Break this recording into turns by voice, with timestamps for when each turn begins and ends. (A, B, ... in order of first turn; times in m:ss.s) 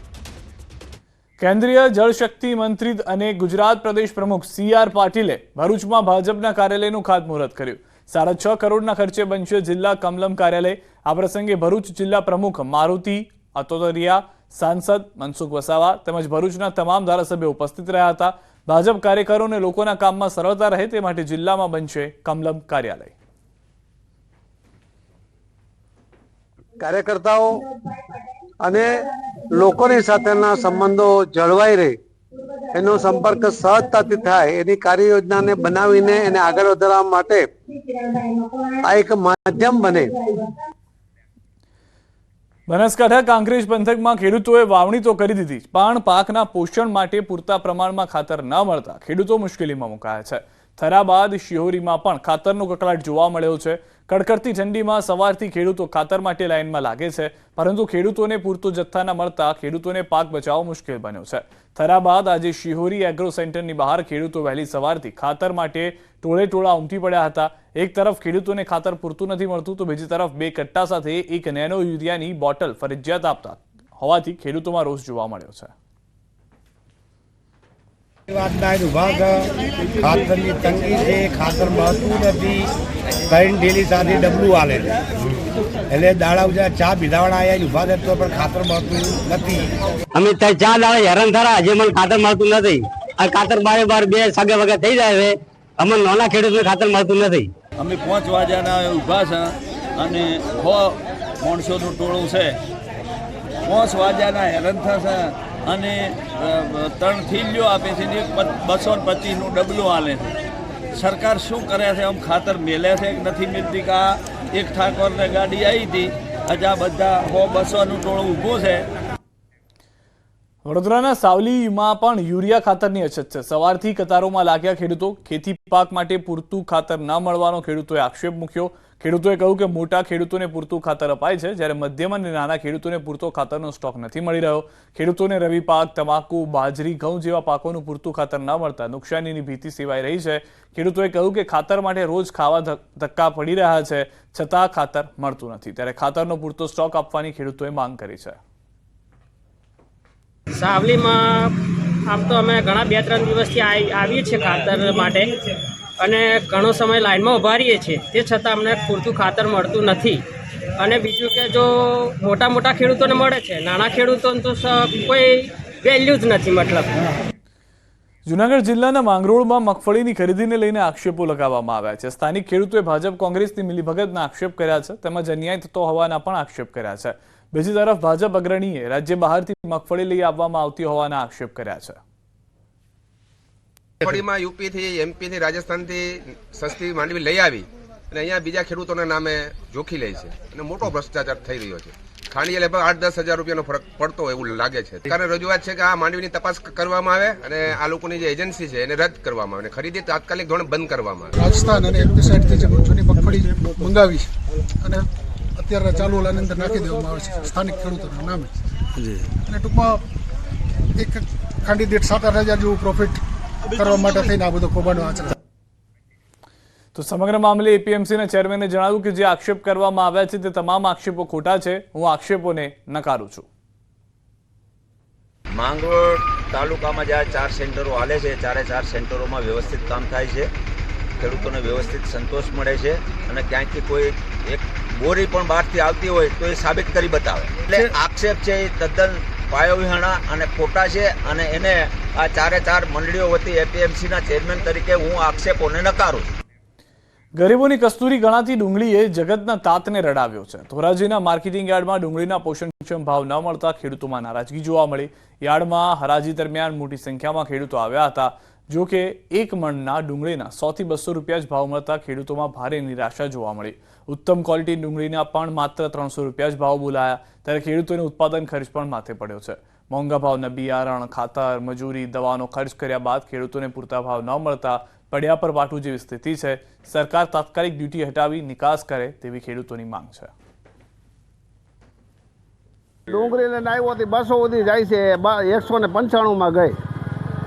0:01.4-0:23.1 A
0:26.8-0:27.6 B
0:28.6-0:28.9 B
0:29.6-0:32.0 B
0:32.7-0:37.4 B
0:38.8-0:40.1 B
0:42.7-1:15.7 A
1:18.3-1:19.4 C
1:20.0-1:22.6 C
1:23.3-1:25.4 C
1:25.9-1:29.7 C
1:30.1-1:37.5 D
1:37.8-1:42.6 E
1:43.6-1:50.3 E
1:50.9-1:58.9 E
2:00.6-2:28.4 A
2:30.6-2:31.5 F
2:32.1-2:35.4 F
2:36.0-2:40.2 F
2:40.8-2:46.9 F
2:48.3-3:02.0 A
3:04.0-3:21.3 G
3:21.4-3:24.3 H
3:25.6-3:28.5 H
3:29.4-3:30.0 H
3:31.0-3:33.2 H
3:33.7-3:35.3 H
3:36.9-3:43.4 A
3:45.5-3:50.5 I
3:51.2-4:06.3 I
4:07.4-4:40.3 A
4:43.1-4:46.8 J